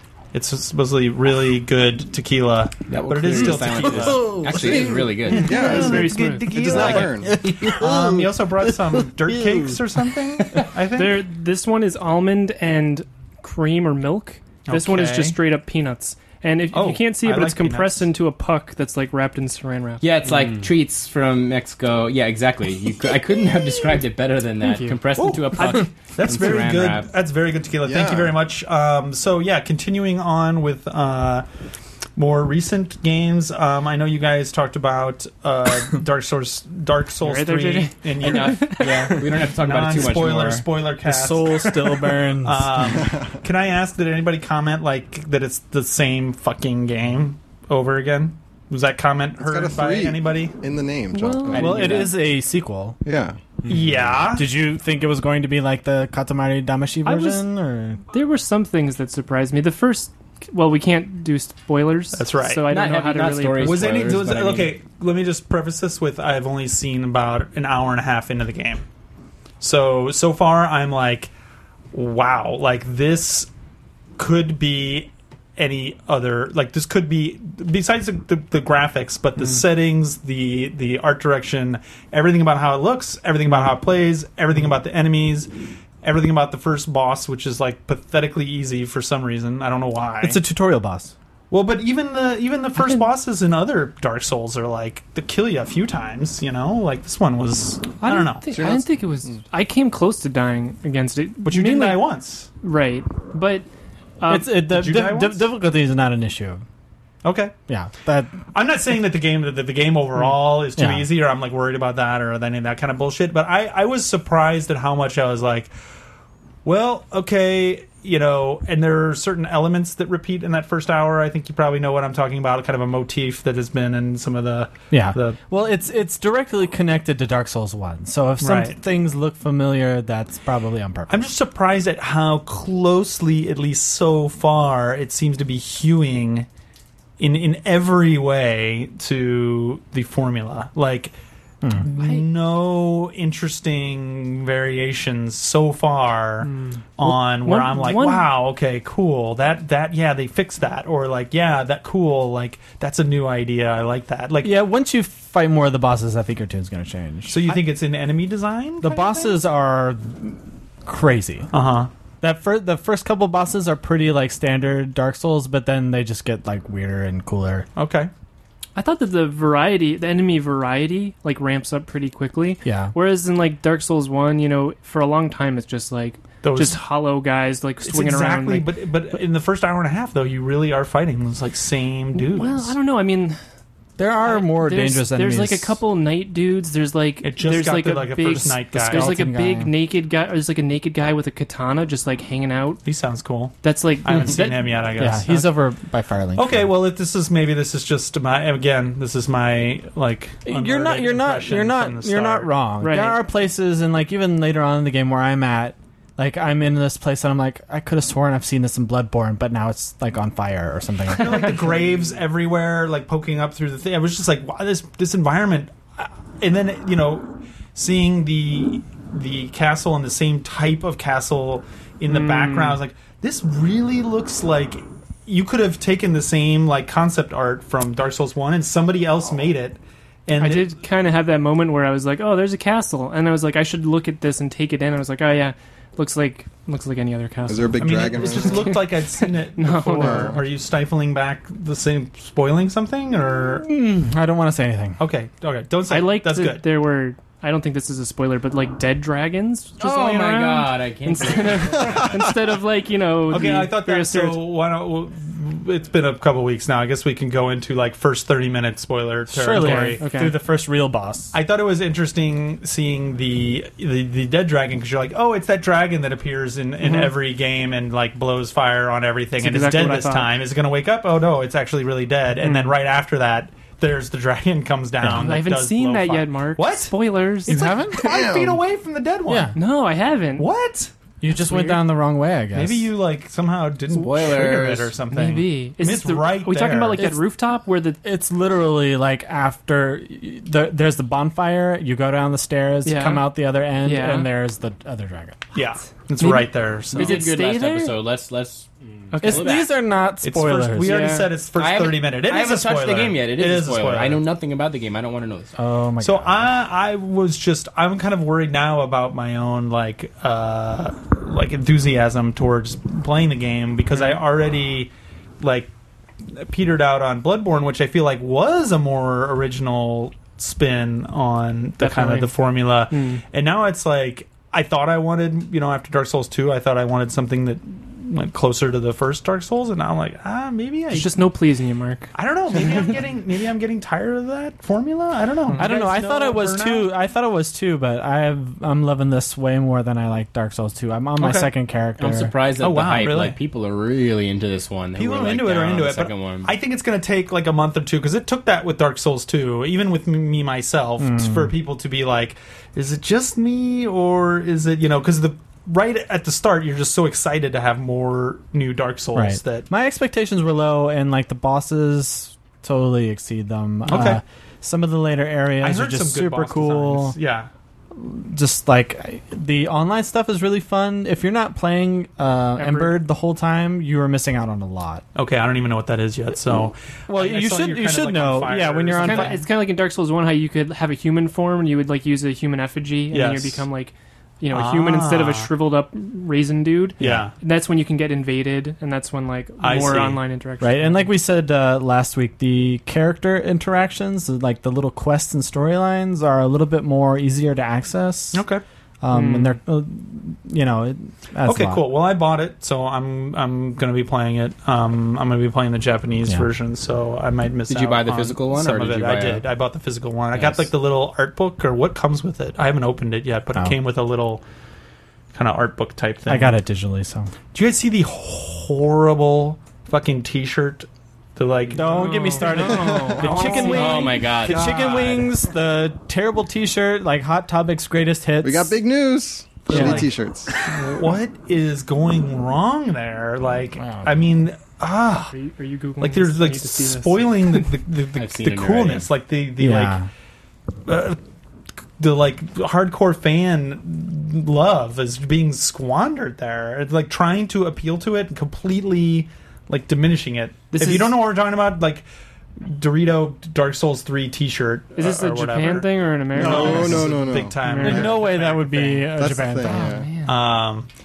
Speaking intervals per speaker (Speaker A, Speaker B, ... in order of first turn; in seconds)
Speaker A: 0.3-4.4, 5.5-11.2, 14.6-15.4, 16.7-18.1, 25.2-31.4, 32.1-50.6, 51.6-52.1, 53.7-54.5, 62.1-62.7, 63.6-68.8, 69.6-71.3, 71.9-73.5, 74.2-85.5, 86.0-90.4, 91.5-98.6, 101.4-102.5, 104.6-105.5, 107.2-107.5, 108.5-115.7, 116.6-125.4, 128.4-128.7, 131.1-136.5, 137.2-141.1, 141.7-154.5, 157.3-159.4, 161.5-161.9, 167.8-168.1, 176.4-176.8, 177.8-182.7, 187.2-189.3, 192.8-195.5, 196.3-202.7, 211.1-230.7, 237.8-243.7, 245.0-246.6, 253.3-260.1, 261.3-279.6, 280.4-280.9, 282.5-287.1, 295.5-297.3, 300.2-304.2, 306.0-315.7, 316.3-331.2, 332.1-336.9, 341.2-341.5, 342.6-343.4, 344.9-359.6, 363.9-364.2, 365.6-367.5, 375.1-379.4, 383.1-383.6, 384.5-385.5, 387.0-387.3, 389.6-390.2, 398.3-398.6, 401.4-414.4, 415.3-416.5, 417.5-425.3, 429.7-430.1, 430.7-435.3, 436.0-440.0, 440.9-441.2, 442.0-452.1, 452.6-459.1, 460.2-460.9
Speaker B: 2.9-5.6, 6.6-7.1, 20.0-27.1, 38.2-40.7, 62.7-64.8, 249.8-252.1, 284.4-284.9, 296.9-299.7, 301.6-305.6, 342.0-346.5, 407.7-409.4, 410.3-410.7, 423.6-424.6, 438.1-439.1, 450.8-451.1
Speaker C: 3.6-5.3, 6.6-9.8, 41.0-43.0, 51.4-53.0, 54.3-58.0, 90.2-91.1, 104.3-106.6, 107.7-108.4, 110.7-111.1, 124.9-131.3, 154.4-157.6, 158.8-161.5, 162.2-167.7, 172.6-172.9, 184.0-185.8, 188.8-189.7, 194.9-196.7, 200.4-211.7, 243.6-245.0, 259.3-261.3, 275.0-275.3, 277.5-278.2, 279.3-279.5, 281.2-282.9, 288.0-295.5, 299.2-301.1, 305.6-306.5, 335.5-342.3, 351.0-351.5, 359.1-367.1, 367.9-375.0, 377.1-379.4, 390.6-398.4, 399.0-401.8, 416.3-417.3, 421.7-428.8, 429.7-430.0, 433.8-434.2, 439.6-440.1, 457.8-459.8
Speaker D: 4.3-7.8, 27.8-28.4, 49.4-52.1, 53.0-53.4, 98.5-99.4, 237.5-238.8, 239.9-240.4, 278.0-278.6, 284.1-284.7, 422.7-423.2, 428.4-430.5, 456.3-458.0, 459.1-460.1
Speaker E: 5.3-6.6, 10.9-20.0, 24.6-25.0, 25.6-25.9, 37.2-38.9, 51.1-51.8, 57.0-57.5, 58.1-64.3, 92.7-93.1, 98.0-103.7, 104.2-104.7, 141.9-142.3, 146.5-148.4, 168.7-178.8, 182.1-183.4, 184.2-192.8, 193.6-195.0, 202.8-203.2, 222.1-222.8, 230.4-240.4, 245.9-254.6, 259.5-260.3, 266.8-267.1, 269.4-270.3, 272.4-272.8, 275.0-277.6, 279.5-280.5, 281.5-281.9, 285.1-288.0, 292.8-293.3, 293.8-294.3, 296.2-298.0, 299.1-299.7, 300.8-301.4, 313.9-314.2, 321.8-323.2, 330.9-332.9, 372.6-373.0, 379.0-391.1, 399.1-399.6, 421.8-424.3, 435.3-437.7, 450.8-451.0, 454.9-458.1, 459.6-460.4